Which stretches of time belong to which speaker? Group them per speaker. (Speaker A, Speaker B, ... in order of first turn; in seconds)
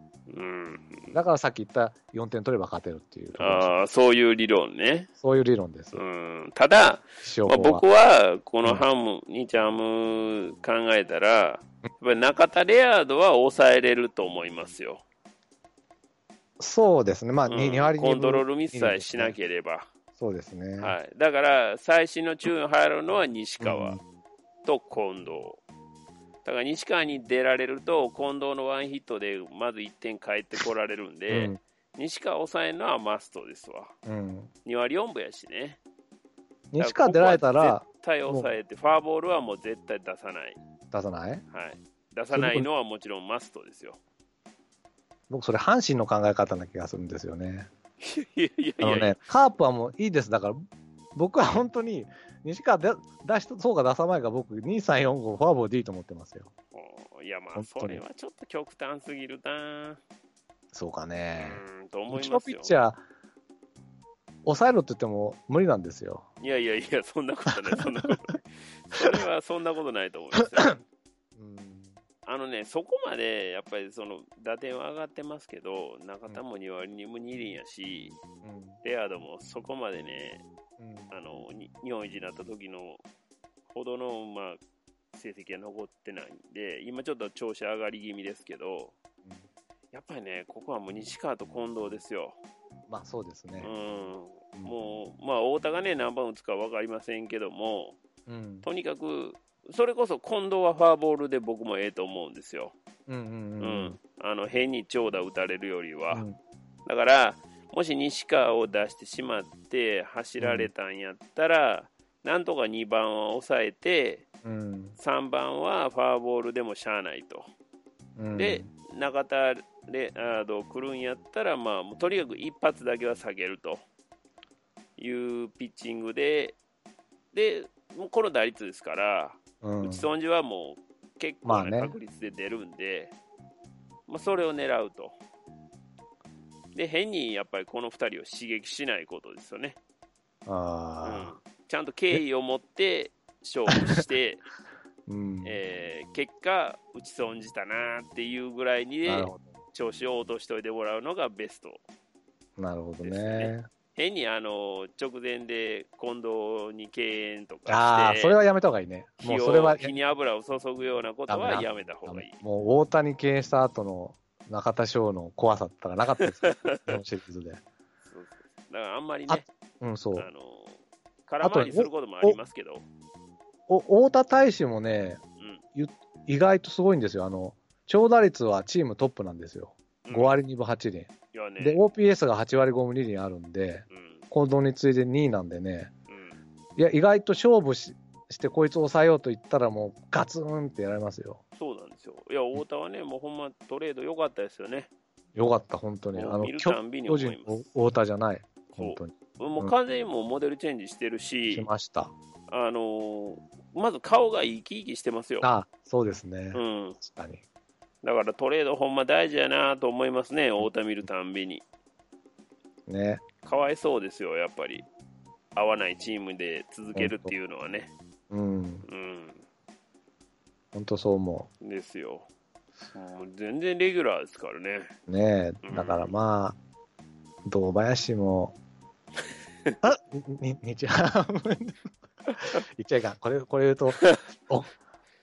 Speaker A: 0.3-1.2, 3.4-5.1, 5.9-15.0, 17.5-19.9, 20.8-24.0, 24.6-25.6, 26.4-33.9, 34.6-35.8, 36.8-40.6, 41.5-44.0, 48.0-49.2, 56.7-60.0, 61.4-62.8, 66.4-70.8, 72.2-78.2, 78.8-80.4, 81.1-83.0, 83.7-84.6, 85.1-88.9, 89.9-92.4, 93.6-98.0, 98.6-102.8, 103.6-106.2, 106.9-114.2, 115.0-117.5, 118.3-123.8, 125.0-126.6, 127.3-133.1, 134.1-135.1, 136.7-139.8, 141.0-144.4, 145.4-151.8, 153.0-158.4, 159.2-162.4, 166.2-167.0, 168.1-169.4, 170.1-172.9, 180.1-180.4, 181.3-181.8, 183.9-184.2, 186.1-186.4, 191.6-194.9, 196.1-197.6, 198.8-201.7, 202.5-205.5, 206.5-207.0, 208.0-211.6, 213.4-214.9, 215.5-217.9, 218.9-219.4, 221.6-222.3, 222.9-224.9, 225.6-226.1
Speaker B: 1.1-3.7, 5.2-6.0, 7.2-7.8, 16.6-19.4, 20.2-20.9, 23.6-24.0, 31.3-31.6, 34.1-34.5, 36.7-38.5, 40.9-41.4, 42.3-42.7, 45.3-47.7, 48.8-50.6, 51.1-56.5, 57.5-58.0, 60.7-63.0, 64.4-66.3, 71.4-72.0, 78.4-78.8, 80.8-81.1, 92.9-93.7, 98.3-98.7, 103.1-104.0, 106.1-106.4, 110.4-110.7, 114.4-114.9, 118.2-118.7, 129.6-130.1, 131.4-131.9, 140.4-141.3, 145.1-145.6, 149.1-149.4, 152.6-153.7, 157.7-159.9, 161.3-167.6, 169.3-170.3, 171.4-172.4, 173.7-175.2, 175.8-185.9, 186.8-191.4, 195.3-199.8, 201.5-202.1, 205.4-207.4, 212.9-213.2, 216.9-217.3, 218.3-218.8, 220.7-221.5, 225.1-226.6, 227.4-228.6, 229.8-231.9, 232.4-234.7